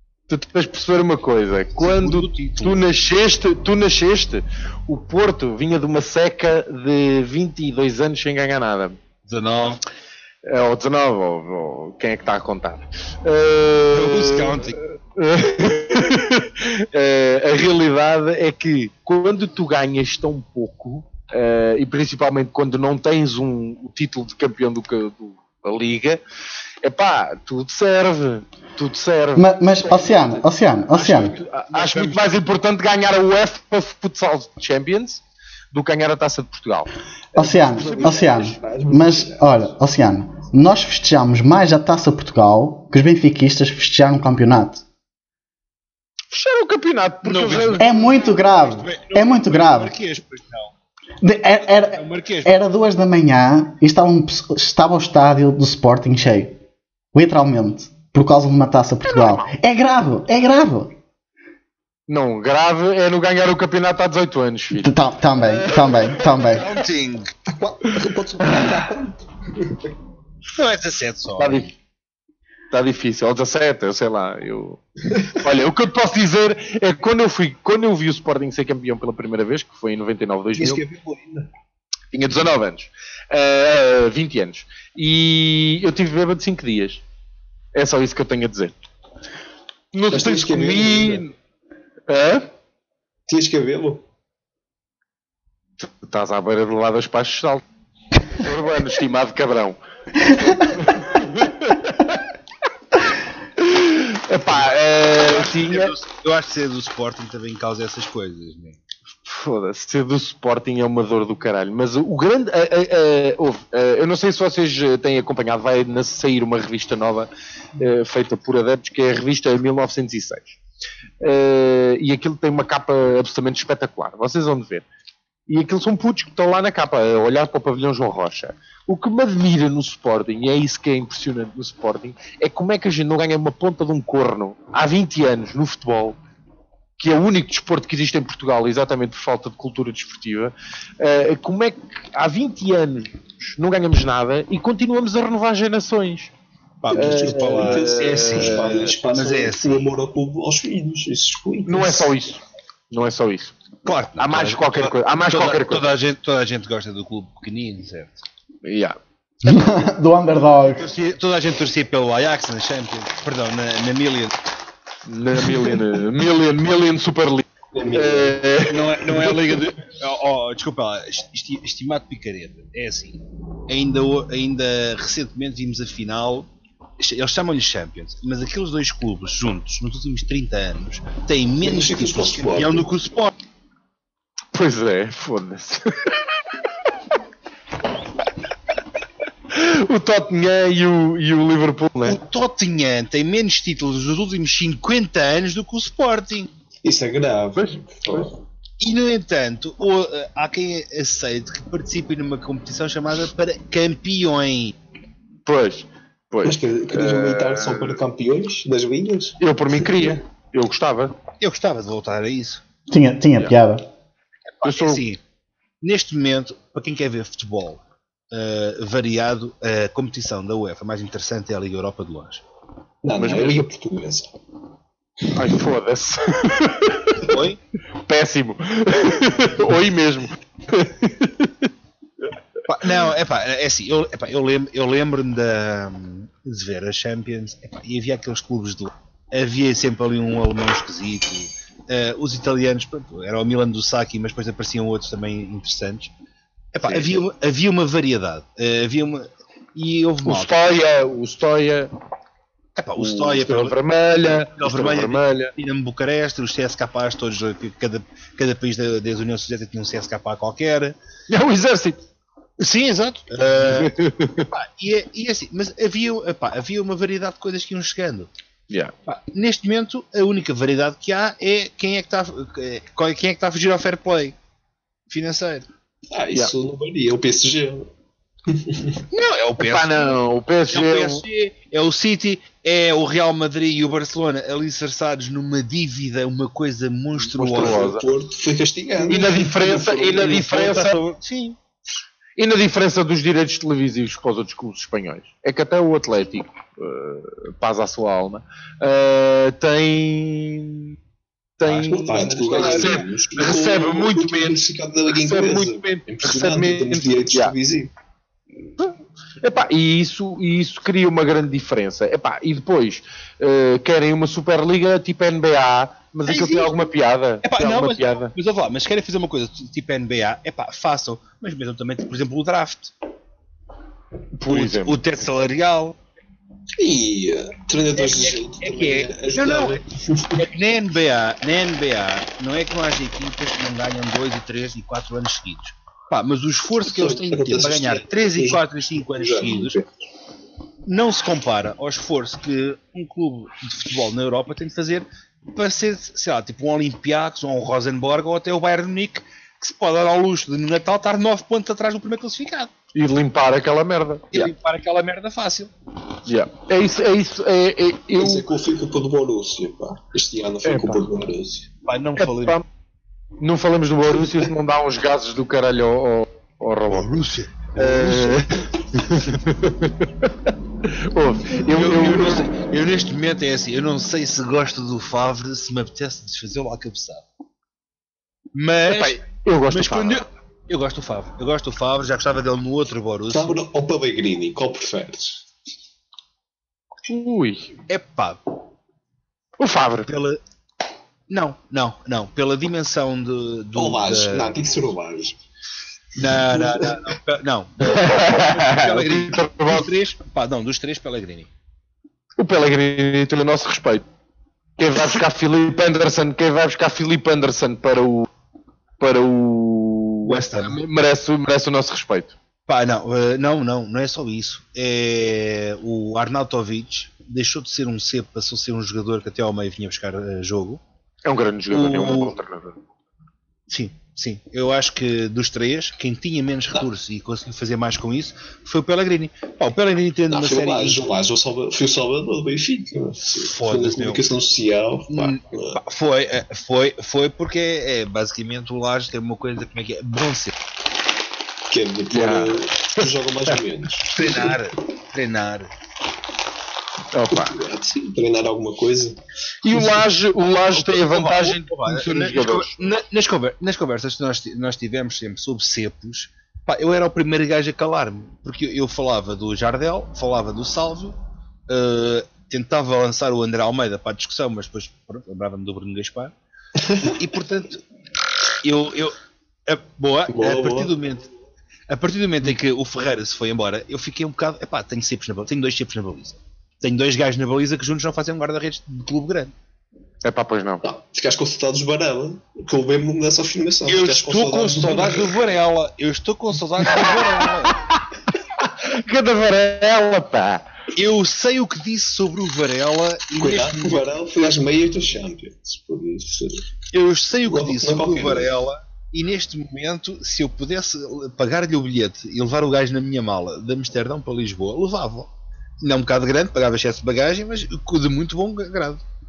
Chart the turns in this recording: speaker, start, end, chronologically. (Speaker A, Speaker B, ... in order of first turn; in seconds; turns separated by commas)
Speaker A: 0.3-9.0, Speaker B: 1.8-2.9, Speaker B: 9.3-9.8, Speaker A: 10.4-14.6, Speaker B: 13.9-14.8, Speaker A: 15.1-26.2, Speaker A: 26.8-36.9, Speaker C: 29.4-31.3, Speaker B: 31.7-32.4, Speaker D: 37.3-39.7, Speaker C: 37.3-44.8, Speaker A: 46.3-47.9, Speaker B: 47.2-50.7, Speaker C: 47.8-49.9, Speaker C: 51.2-56.6, Speaker B: 51.6-52.5, Speaker C: 57.1-60.9, Speaker A: 59.1-59.5, Speaker A: 62.1-66.1, Speaker C: 64.8-66.7, Speaker B: 65.7-67.3, Speaker D: 67.5-69.8, Speaker B: 70.5-71.7, Speaker A: 71.4-71.7, Speaker A: 72.7-74.8, Speaker A: 75.3-80.8, Speaker D: 80.5-81.5, Speaker A: 82.1-87.0, Speaker A: 87.7-88.7, Speaker A: 89.9-91.3, Speaker D: 90.1-91.2, Speaker A: 92.1-92.5, Speaker D: 93.3-94.0, Speaker A: 95.8-97.6, Speaker A: 98.3-99.8, Speaker C: 100.3-100.7, Speaker A: 100.3-102.2, Speaker A: 103.6-105.9, Speaker B: 105.2-108.8, Speaker A: 109.2-120.6, Speaker A: 121.2-124.8, Speaker A: 125.5-136.2, Speaker A: 137.0-146.3, Speaker B: 146.8-149.8, Speaker D: 146.9-152.1, Speaker A: 146.9-148.9, Speaker A: 151.7-153.6, Speaker B: 153.8-158.2, Speaker A: 154.2-155.8, Speaker A: 158.6-159.0, Speaker C: 159.4-160.9, Speaker B: 160.6-164.3, Speaker A: 165.1-169.5, Speaker D: 167.7-168.4, Speaker B: 168.7-183.3, Speaker D: 181.6-182.9, Speaker A: 184.5-186.2, Speaker A: 189.5-192.2, Speaker B: 192.1-196.5, Speaker D: 196.8-198.3, Speaker A: 197.6-198.2, Speaker B: 198.8-204.7, Speaker A: 205.4-208.0, Speaker D: 206.4-209.4, Speaker A: 209.4-211.2, Speaker B: 211.4-212.6, Speaker C: 212.9-213.8, Speaker B: 214.5-215.2, Speaker A: 214.6-215.0, Speaker B: 215.8-222.4, Speaker D: 223.0-224.3, Speaker A: 223.1-223.6, Speaker A: 225.3-227.3, Speaker B: 227.2-227.6, Speaker A: 228.0-231.7, Speaker B: 232.7-246.1, Speaker B: 246.7-250.6, Speaker A: 246.8-247.2, Speaker A: 250.2-251.9, Speaker B: 252.8-253.7, Speaker A: 252.9-255.5, Speaker B: 254.4-260.9, Speaker A: 261.3-262.0, Speaker B: 262.6-268.3, Speaker A: 263.7-264.5, Speaker B: 269.1-274.3, Speaker B: 275.1-275.7, Speaker D: 276.1-277.9, Speaker D: 278.5-279.0, Speaker B: 279.1-280.1, Speaker A: 279.6-281.2, Speaker B: 280.7-287.9, Speaker D: 287.3-290.4, Speaker A: 287.4-288.1, Speaker A: 289.0-291.0, Speaker B: 290.2-291.6, Speaker A: 292.4-300.9, Speaker A: 301.6-304.3, Speaker D: 301.7-307.9, Speaker B: 302.4-304.6, Speaker A: 305.1-307.5, Speaker A: 308.8-318.3, Speaker B: 316.3-316.7, Speaker B: 317.4-322.9, Speaker A: 324.4-325.0, Speaker B: 324.5-326.0, Speaker D: 326.8-330.4, Speaker B: 327.9-339.8, Speaker D: 336.8-339.9, Speaker B: 340.9-352.7, Speaker A: 352.9-354.5, Speaker B: 354.3-355.7, Speaker A: 356.2-358.4, Speaker D: 358.2-361.7, Speaker A: 360.6-361.0, Speaker B: 361.8-362.6, Speaker A: 362.2-362.6, Speaker A: 363.4-372.5, Speaker B: 366.9-368.4, Speaker B: 371.7-377.2, Speaker B: 378.5-383.6, Speaker A: 378.9-380.2, Speaker D: 383.3-385.4, Speaker A: 387.1-387.8, Speaker B: 387.9-388.4, Speaker A: 389.6-390.1, Speaker B: 390.1-390.4, Speaker B: 391.3-394.6, Speaker D: 393.7-395.4, Speaker B: 396.2-401.5, Speaker D: 396.2-397.0, Speaker A: 397.8-399.9, Speaker A: 402.4-404.0, Speaker A: 404.8-408.3, Speaker A: 409.0-412.3, Speaker B: 410.2-410.8, Speaker B: 412.7-420.8, Speaker A: 421.2-422.8, Speaker B: 421.7-422.4, Speaker B: 423.7-431.1, Speaker D: 430.3-435.8, Speaker B: 433.3-434.3, Speaker B: 435.1-440.6, Speaker D: 441.7-444.6, Speaker A: 442.1-443.5, Speaker B: 444.1-445.7, Speaker A: 447.1-447.6, Speaker D: 447.3-449.9, Speaker A: 449.6-452.8, Speaker B: 450.7-461.1, Speaker B: 461.7-466.3, Speaker D: 466.8-467.1, Speaker B: 467.0-467.8, Speaker B: 468.6-471.3, Speaker D: 470.3-470.9, Speaker B: 471.9-479.5, Speaker A: 480.2-480.8, Speaker D: 480.8-485.3, Speaker B: 483.9-487.8, Speaker A: 486.9-488.0, Speaker A: 488.6-490.6, Speaker B: 490.9-494.0, Speaker D: 493.4-496.6, Speaker B: 496.9-509.0, Speaker D: 497.5-498.5